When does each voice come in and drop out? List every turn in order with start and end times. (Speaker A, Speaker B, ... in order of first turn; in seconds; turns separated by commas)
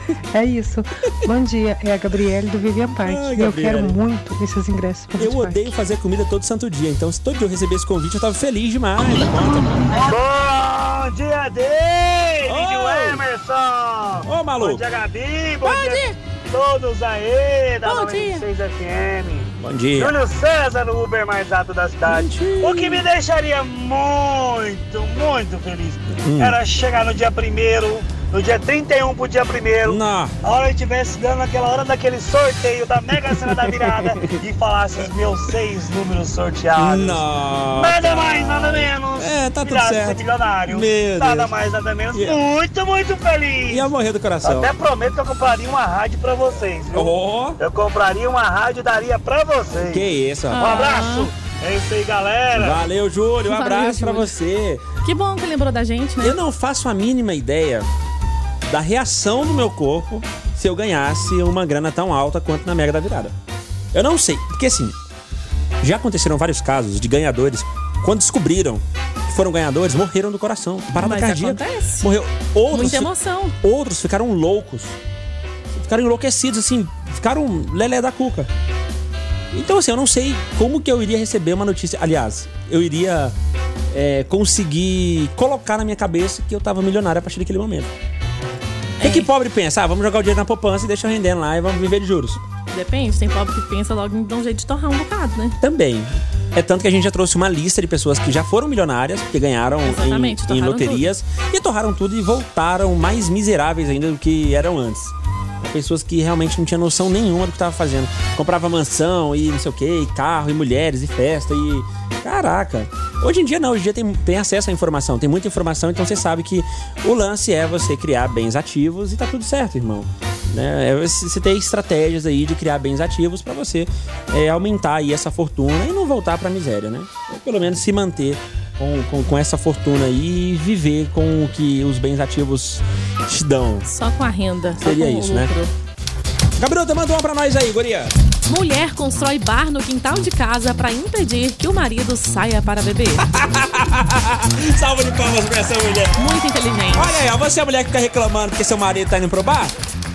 Speaker A: 0.3-5.7, Speaker B: 3.0-4.0, Speaker B: 5.1-10.0, Speaker C: 9.9-43.9, Speaker B: 12.4-13.2, Speaker B: 14.2-14.8, Speaker D: 15.6-16.1, Speaker D: 17.8-18.4, Speaker B: 19.6-20.1, Speaker B: 22.1-23.0, Speaker B: 26.2-26.6, Speaker B: 29.8-30.3, Speaker B: 33.3-34.3, Speaker B: 36.7-41.5, Speaker B: 42.1-42.4, Speaker B: 43.7-44.7, Speaker C: 44.4-50.1, Speaker B: 46.9-47.6, Speaker B: 49.8-51.0, Speaker D: 50.5-51.3, Speaker C: 50.6-52.8, Speaker B: 52.5-54.8, Speaker D: 53.5-54.3, Speaker D: 55.0-56.4, Speaker B: 56.2-57.9, Speaker B: 58.6-63.3, Speaker B: 63.9-64.9, Speaker B: 65.8-73.1, Speaker D: 71.0-72.1, Speaker D: 72.7-73.5, Speaker B: 73.6-75.0, Speaker B: 75.7-78.5, Speaker B: 79.5-83.3, Speaker B: 83.9-87.9, Speaker D: 89.0-89.3, Speaker B: 89.0-92.4, Speaker D: 92.7-95.6, Speaker B: 95.6-133.9, Speaker D: 99.8-101.1, Speaker D: 133.8-135.7, Speaker B: 134.8-135.5, Speaker B: 136.6-138.1, Speaker D: 138.5-143.2, Speaker B: 143.2-146.2, Speaker D: 146.2-147.2, Speaker B: 146.9-149.7